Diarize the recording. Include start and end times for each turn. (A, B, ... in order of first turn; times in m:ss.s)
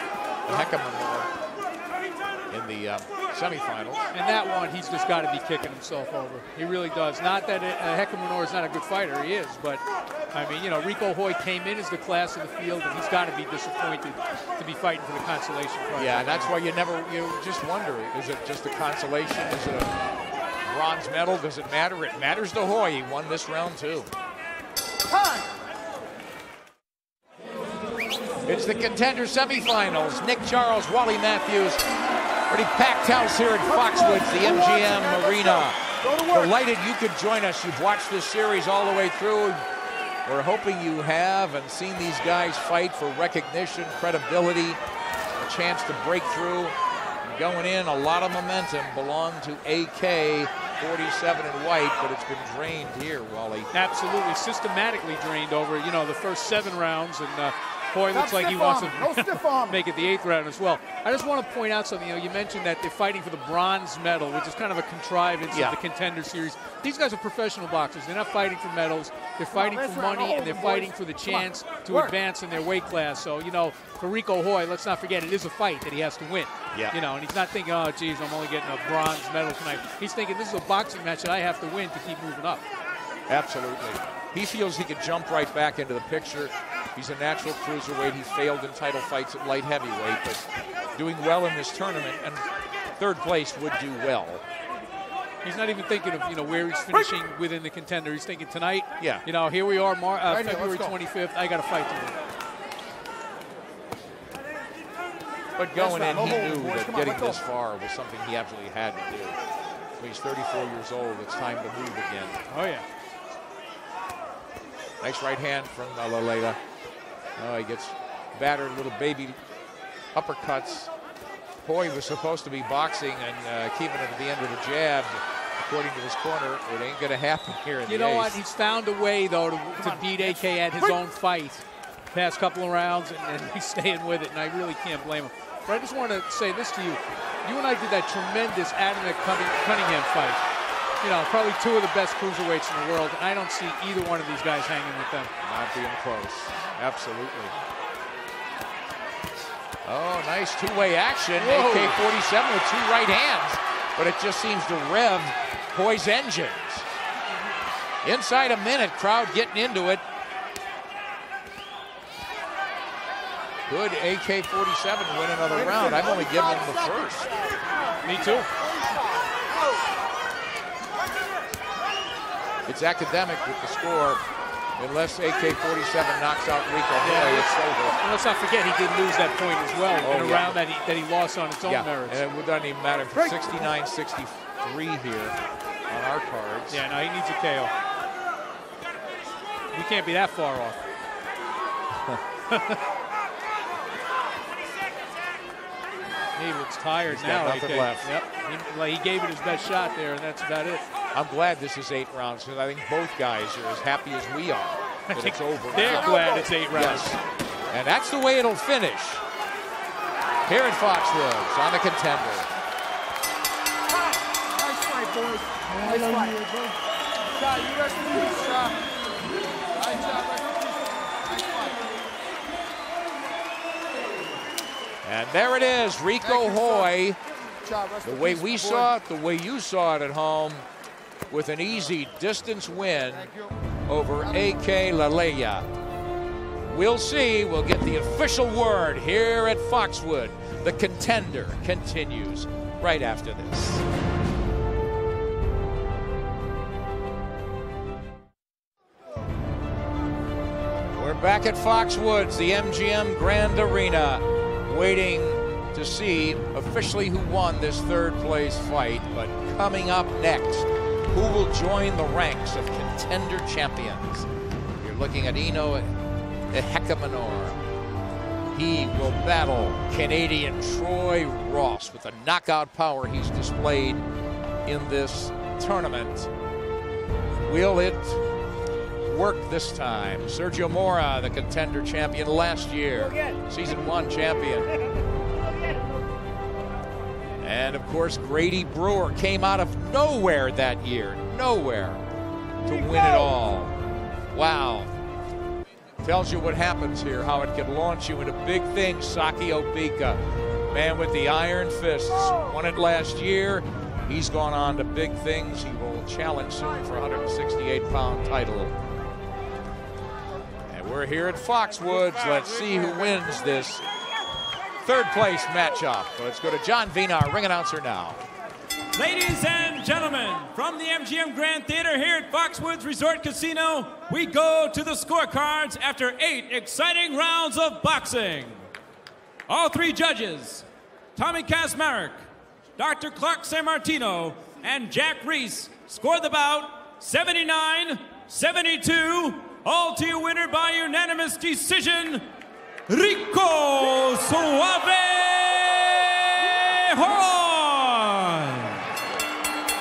0:00.4-0:01.3 A
0:02.5-0:04.0 A
0:04.1-0:16.5 B
0:15.9-0:19.9 A
0:20.6-0:24.1 A
0:25.1-0:25.5 C
0:28.4-0:31.8 A
0:32.5-0:39.6 A
0:33.6-0:36.5 C
0:40.2-0:44.8 A
0:45.4-0:53.7 A
0:53.7-1:22.6 B
0:58.1-0:59.8 C
1:09.5-1:12.2 C
1:23.3-1:32.4 A
1:33.0-1:34.4 A
1:35.4-1:42.2 B
1:39.0-1:39.2 A
1:40.3-1:40.9 C
1:45.6-1:49.4 A
1:45.7-1:47.4 C
1:50.0-1:52.4 A
1:52.5-1:52.8 B
1:55.0-1:56.6 A
1:57.4-1:59.4 A
2:00.1-2:00.9 A
2:01.6-2:08.4 A
2:07.8-2:20.4 B
2:21.0-2:25.3 B
2:25.4-2:27.6 A
2:29.8-2:36.8 A
2:31.4-2:32.0 B
2:38.0-2:40.0 A
2:43.7-2:47.3 A
2:45.5-2:47.0 C
2:48.0-2:48.5 B
2:52.6-2:54.2 A
2:54.8-2:58.0 A
2:57.0-3:02.2 B
3:00.0-3:00.6 A
3:01.6-3:05.4 A
3:03.1-3:03.7 B
3:05.9-3:06.8 A
3:06.7-3:07.7 B
3:09.7-3:10.8 B
3:12.5-3:12.8 B
3:16.4-3:20.8 B
3:17.1-3:18.1 A
3:21.1-3:26.2 A
3:25.1-3:27.2 B
3:25.7-3:26.7 C
3:26.7-3:29.2 A
3:30.4-3:32.5 A
3:33.9-3:36.5 C
3:37.3-3:38.8 C
3:39.7-3:41.8 C
3:45.0-3:47.2 A
3:46.2-3:47.0 C
3:47.6-3:48.9 C
3:48.0-3:50.6 A
3:51.3-3:53.3 A
3:53.1-3:53.6 C
3:53.9-3:55.6 A
3:54.2-3:54.8 C
3:56.7-4:03.8 A
4:10.9-4:24.3 A
4:24.8-4:25.9 A
4:26.5-4:27.6 A
4:28.5-4:34.0 A
4:34.6-4:36.3 A
4:37.4-4:38.2 A
4:39.0-4:44.7 A
4:47.4-4:52.0 A
4:52.6-4:53.7 A
4:54.3-4:54.9 A
4:56.0-5:08.8 A
5:10.7-5:13.8 A
5:14.8-5:18.2 A
5:18.9-5:28.6 D
5:29.5-5:30.6 D
5:31.2-5:32.2 D
5:32.8-5:42.3 D
5:42.9-5:48.8 D